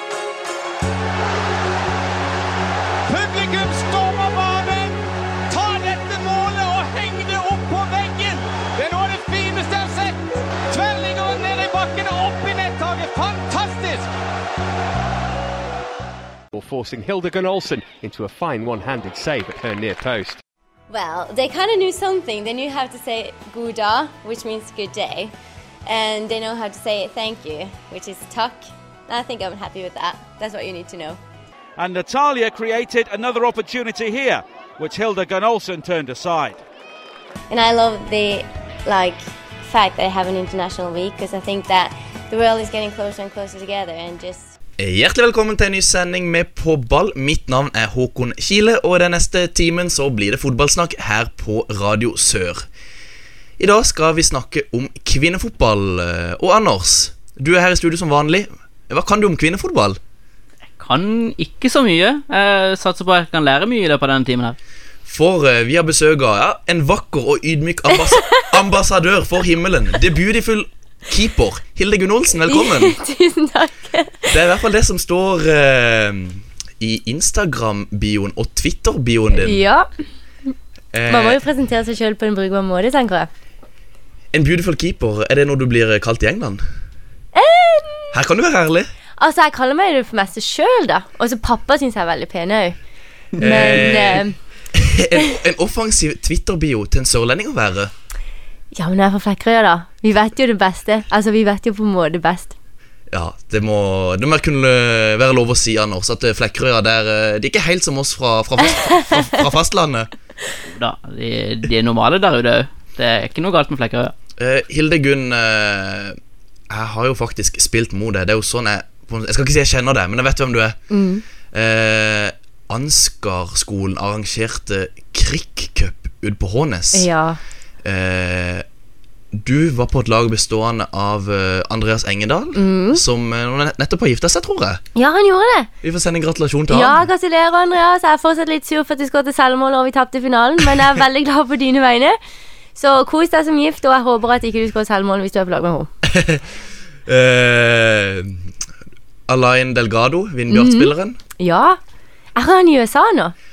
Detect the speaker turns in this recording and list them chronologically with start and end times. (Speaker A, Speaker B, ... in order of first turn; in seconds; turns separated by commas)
Speaker A: 3.1-5.0, Speaker A: 5.5-10.2, Speaker A: 10.7-14.1, Speaker B: 16.5-20.4, Speaker C: 20.9-25.3, Speaker C: 25.9-31.2, Speaker D: 31.8-36.6, Speaker C: 37.5-44.5, Speaker E: 44.8-52.6, Speaker E: 53.6-60.0, Speaker F: 60.8-64.5, Speaker E: 65.0-73.0, Speaker C: 72.5-74.4, Speaker E: 74.3-79.6, Speaker C: 79.3-79.9, Speaker E: 80.9-81.4, Speaker C: 81.1-83.3, Speaker E: 84.3-86.6, Speaker C: 87.3-88.1, Speaker E: 88.1-88.9, Speaker C: 89.2-92.8, Speaker C: 93.4-94.3, Speaker E: 93.4-97.9, Speaker C: 98.7-102.5, Speaker E: 103.1-110.1, Speaker C: 108.9-109.2, Speaker F: 110.7-114.1, Speaker E: 114.4-116.2, Speaker E: 116.7-120.8, Speaker C: 120.9-121.2, Speaker E: 121.5-127.1, Speaker C: 126.9-127.4, Speaker E: 127.8-128.6, Speaker E: 129.3-134.8, Speaker C: 132.5-133.0, Speaker C: 134.9-135.7, Speaker E: 135.8-137.1, Speaker C: 136.7-142.2, Speaker C: 142.8-145.9, Speaker E: 146.0-146.4, Speaker E: 147.1-148.5, Speaker E: 149.3-151.2, Speaker C: 150.5-151.8, Speaker C: 152.3-153.3